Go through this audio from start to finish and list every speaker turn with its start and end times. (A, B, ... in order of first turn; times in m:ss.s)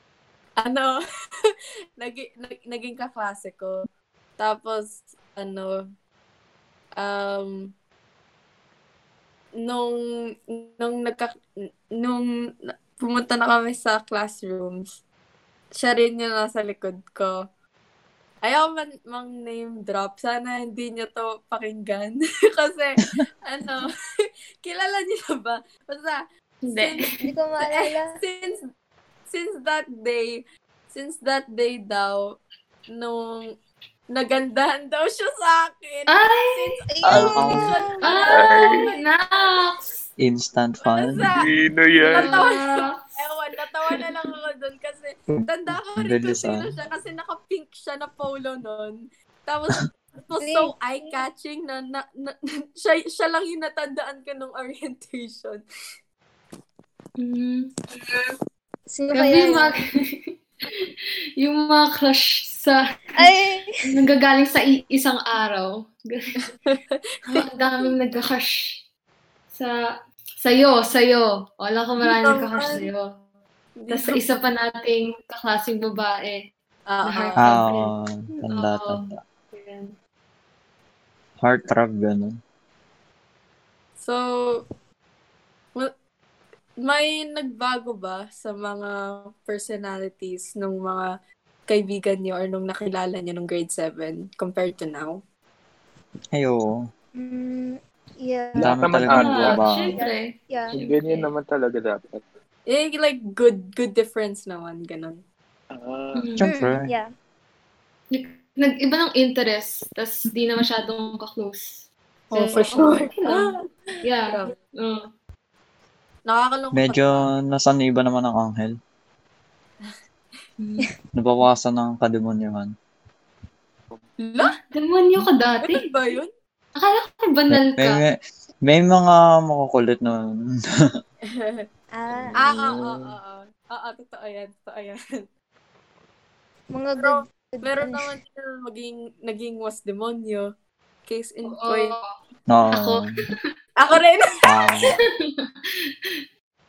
0:00.6-0:03.8 A
0:04.4-0:05.8 A
0:07.0-0:07.7 A
0:09.6-0:09.9 A
0:10.5-0:11.3 A
0:12.0-0:15.0 A
0:15.7-0:17.4 A
0:18.4-0:23.9 A
0:24.6-0:28.6 A
0:26.6-0:27.0 B
0:27.2-0:28.2 C
0:29.3-0:32.3 A
0:32.9-0:33.5 A
0:34.1-0:39.0 A
0:36.1-0:36.7 B
0:36.9-0:37.8 C
0:37.1-0:37.8 D
0:38.0-0:40.0 B
0:38.3-0:38.9 E
0:40.2-0:41.2 D
0:40.8-0:55.6 A
0:41.3-0:42.4 E
0:42.1-0:43.2 B
0:45.3-0:46.7 D
0:50.4-0:51.2 C
0:57.2-0:57.7 B
0:58.9-0:59.8 C
0:59.1-0:59.8 B
1:01.4-1:03.3 B
1:03.2-1:03.7 C
1:03.8-1:06.4 B
1:06.7-1:07.4 A
1:07.3-1:08.8 B
1:10.4-1:13.2 B
1:12.0-1:12.9 A
1:13.8-1:14.2 A
1:13.9-1:16.4 B
1:16.9-1:17.5 A
1:17.0-1:19.9 B
1:17.4-1:19.2 D
1:21.4-1:22.4 D
1:24.0-1:24.6 A
1:26.8-1:31.1 A
1:31.7-1:35.2 A
1:36.3-1:36.8 D
1:37.2-1:38.8 C
1:38.6-1:39.6 E
1:38.6-1:40.0 D
1:39.1-1:41.3 B
1:39.9-1:40.7 C
1:40.7-1:42.2 E
1:42.7-1:45.2 A
1:45.7-1:46.3 E
1:46.2-1:46.4 B
1:46.4-1:46.9 D
1:46.4-1:47.0 C
1:48.1-1:53.5 B
1:52.3-1:53.5 A
1:52.4-1:52.8 C
1:54.0-1:55.0 B
1:54.3-1:54.5 A
1:56.3-1:57.2 A
1:56.7-1:58.8 D
2:00.6-2:00.9 B
2:01.1-2:02.7 D
2:04.2-2:04.6 A
2:04.4-2:05.9 B
2:05.6-2:06.3 A
2:06.8-2:08.0 B
2:07.5-2:10.3 D
2:11.2-2:11.7 A
2:11.9-2:12.5 C
2:12.3-2:13.1 E
2:12.4-2:15.0 A
2:16.7-2:18.1 C
2:17.0-2:20.5 A
2:21.1-2:22.0 A
2:21.5-2:22.1 B
2:22.5-2:23.1 D
2:22.7-2:23.0 B
2:23.8-2:24.3 A
2:24.4-2:24.9 D